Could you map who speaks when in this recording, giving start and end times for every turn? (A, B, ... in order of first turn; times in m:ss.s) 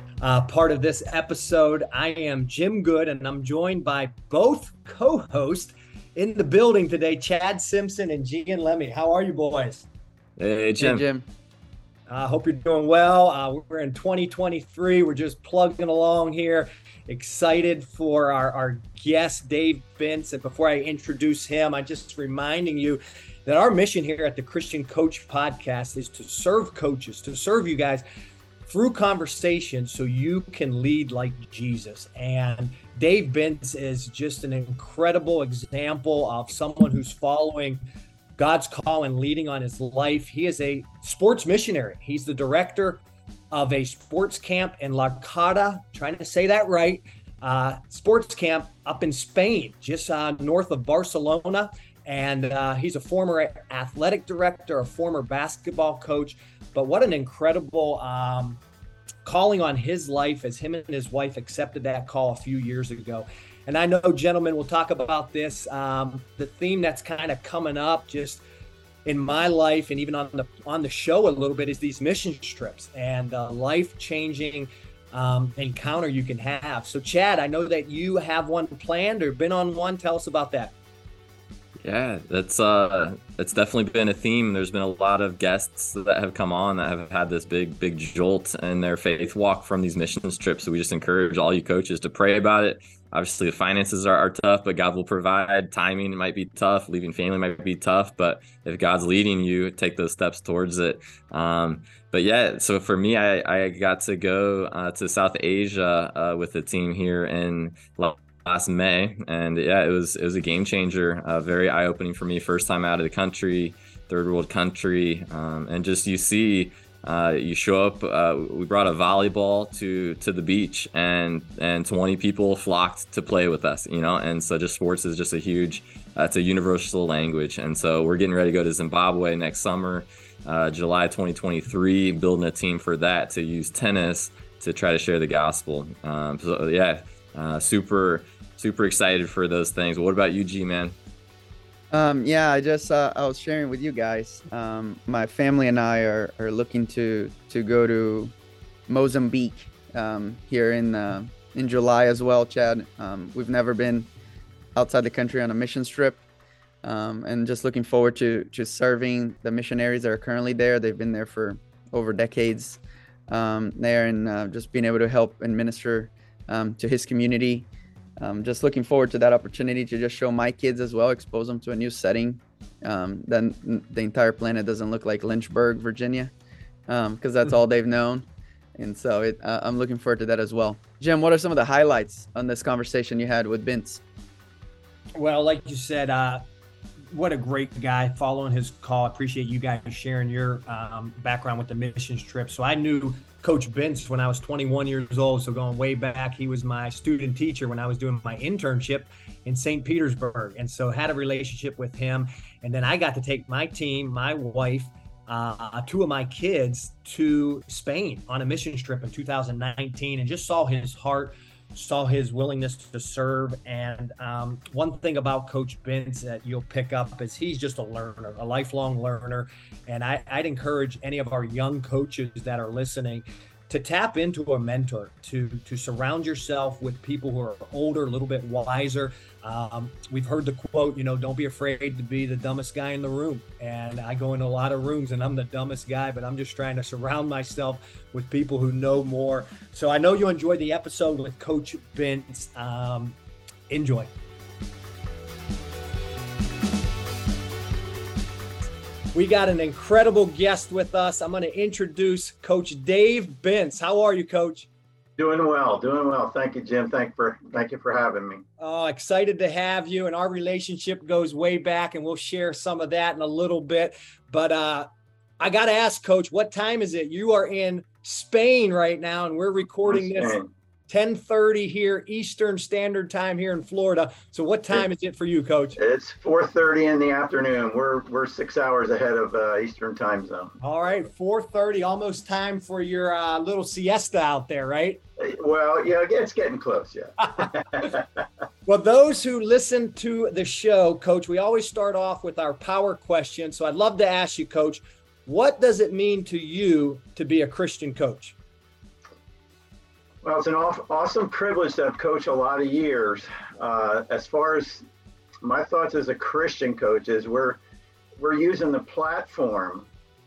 0:00.2-0:09.9 A
0:10.4-0:11.0 B
0:10.8-0:11.2 C
0:12.1-0:28.0 A
0:28.6-0:37.8 A
0:38.4-0:58.6 A
0:59.2-1:08.4 A
1:09.0-1:20.7 A
1:21.8-2:20.9 B
2:21.9-2:28.3 C
2:28.9-2:34.1 C
2:34.7-2:36.2 C
2:36.8-2:47.7 C
2:48.2-2:56.3 C
2:56.9-3:04.0 C
3:05.2-3:06.4 A
3:07.1-4:03.2 A
4:03.7-4:04.1 A
4:09.1-4:14.7 A
4:15.2-4:18.4 D
4:18.6-4:24.9 A
4:25.4-4:35.8 A
4:29.9-4:30.5 D
4:35.8-4:40.6 D
4:40.6-4:45.0 A
4:45.2-4:48.2 D
4:48.6-4:58.3 A
5:00.2-5:04.8 D
5:05.4-5:07.6 D
5:08.2-5:09.9 D